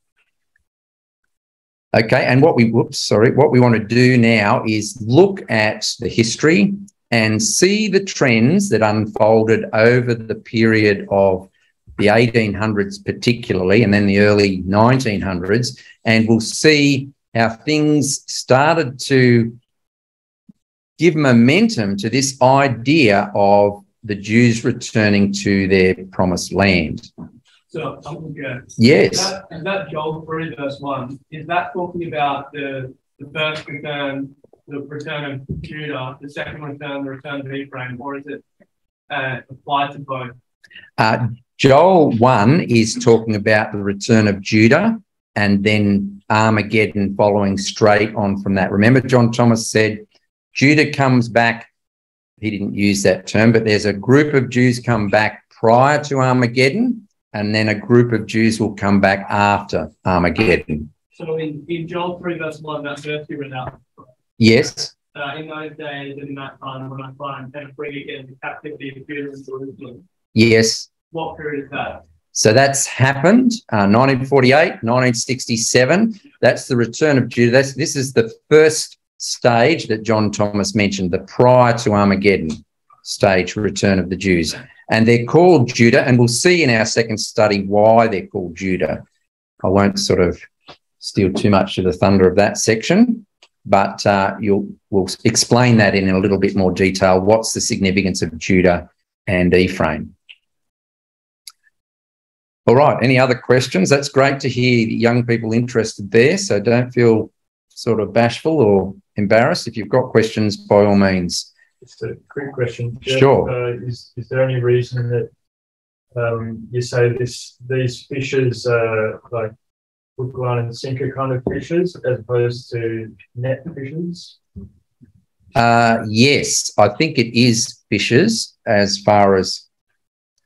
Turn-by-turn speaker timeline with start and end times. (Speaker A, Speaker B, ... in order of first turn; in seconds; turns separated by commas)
Speaker A: 1.9-19.6, Speaker A: 21.0-27.1, Speaker B: 27.7-38.4, Speaker A: 28.8-29.4, Speaker B: 39.1-40.3, Speaker A: 41.0-51.7, Speaker A: 52.4-60.9, Speaker B: 61.1-63.8, Speaker A: 64.4-64.9, Speaker B: 65.1-70.0, Speaker A: 70.3-70.9, Speaker B: 71.1-72.0, Speaker A: 72.3-89.0, Speaker A: 89.6-90.4, Speaker A: 91.0-100.1, Speaker A: 102.7-111.5, Speaker C: 111.8-115.3, Speaker A: 113.0-113.5, Speaker C: 116.1-119.5, Speaker C: 120.2-124.3, Speaker A: 125.5-129.6